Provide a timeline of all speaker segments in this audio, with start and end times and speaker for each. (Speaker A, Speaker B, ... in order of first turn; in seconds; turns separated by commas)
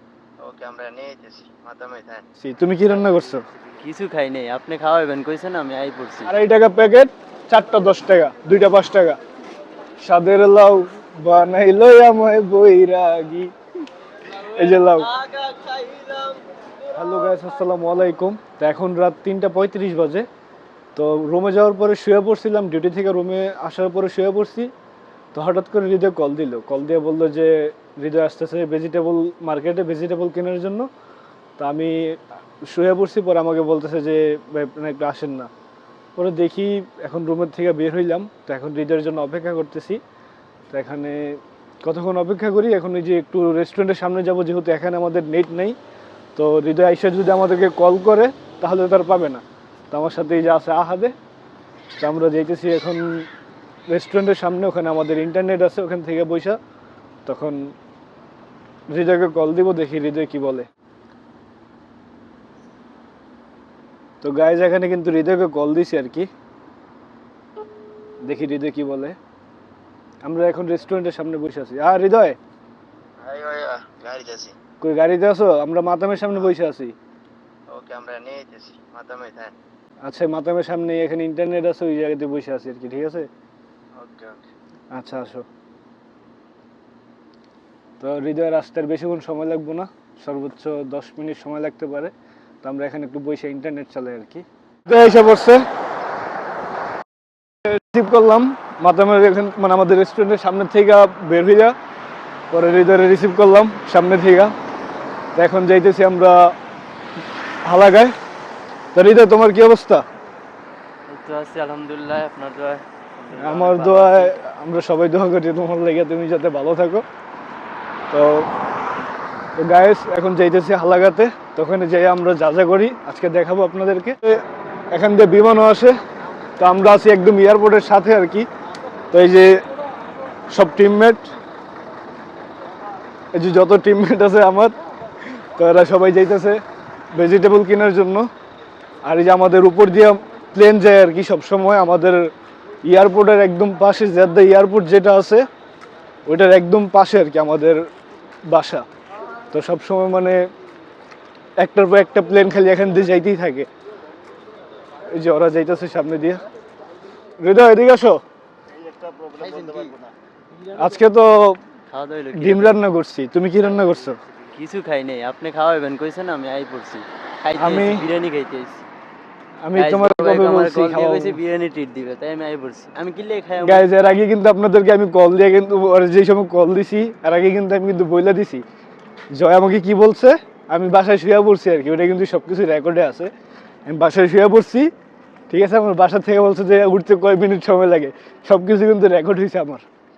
Speaker A: 0.4-2.2, Speaker B: 2.4-3.4, Speaker C: 3.8-6.3, Speaker B: 6.2-9.2, Speaker B: 10.0-13.5, Speaker C: 14.3-17.4, Speaker B: 14.5-15.1, Speaker B: 16.9-20.3, Speaker B: 20.9-24.7, Speaker B: 25.3-30.9, Speaker B: 31.6-35.5, Speaker B: 36.1-40.0, Speaker B: 40.7-45.8, Speaker B: 46.4-51.1, Speaker B: 52.0-53.3, Speaker B: 53.9-56.6, Speaker B: 57.2-57.7, Speaker B: 58.9-60.7, Speaker B: 64.2-66.3, Speaker B: 68.2-69.2, Speaker B: 70.2-72.4, Speaker A: 73.2-74.5, Speaker B: 74.8-76.9, Speaker A: 77.7-79.5, Speaker B: 80.0-83.3, Speaker A: 84.0-84.4, Speaker B: 84.9-85.4, Speaker B: 88.0-92.1, Speaker B: 92.6-95.6, Speaker B: 97.7-101.7, Speaker B: 102.5-104.5, Speaker B: 105.3-106.5, Speaker B: 107.6-108.1, Speaker B: 108.9-110.0, Speaker C: 111.1-114.3, Speaker B: 113.4-117.0, Speaker B: 118.1-118.5, Speaker B: 119.6-126.0, Speaker B: 126.6-128.5, Speaker B: 129.1-129.6, Speaker B: 130.5-131.3, Speaker B: 133.3-134.7, Speaker B: 135.3-136.6, Speaker B: 137.1-138.3, Speaker B: 139.0-142.3, Speaker B: 142.8-145.5, Speaker B: 146.3-147.8, Speaker B: 148.5-148.8, Speaker B: 149.5-150.4, Speaker B: 151.6-153.7, Speaker B: 155.1-156.4, Speaker B: 157.4-158.2, Speaker A: 158.7-160.1, Speaker C: 159.3-159.9, Speaker B: 160.7-161.6, Speaker C: 161.9-162.8, Speaker B: 162.3-164.2, Speaker C: 164.5-168.8, Speaker B: 167.6-168.1, Speaker B: 169.6-171.4, Speaker C: 169.7-173.9, Speaker B: 173.6-178.6, Speaker B: 179.3-183.3, Speaker B: 183.9-184.9, Speaker B: 185.5-189.8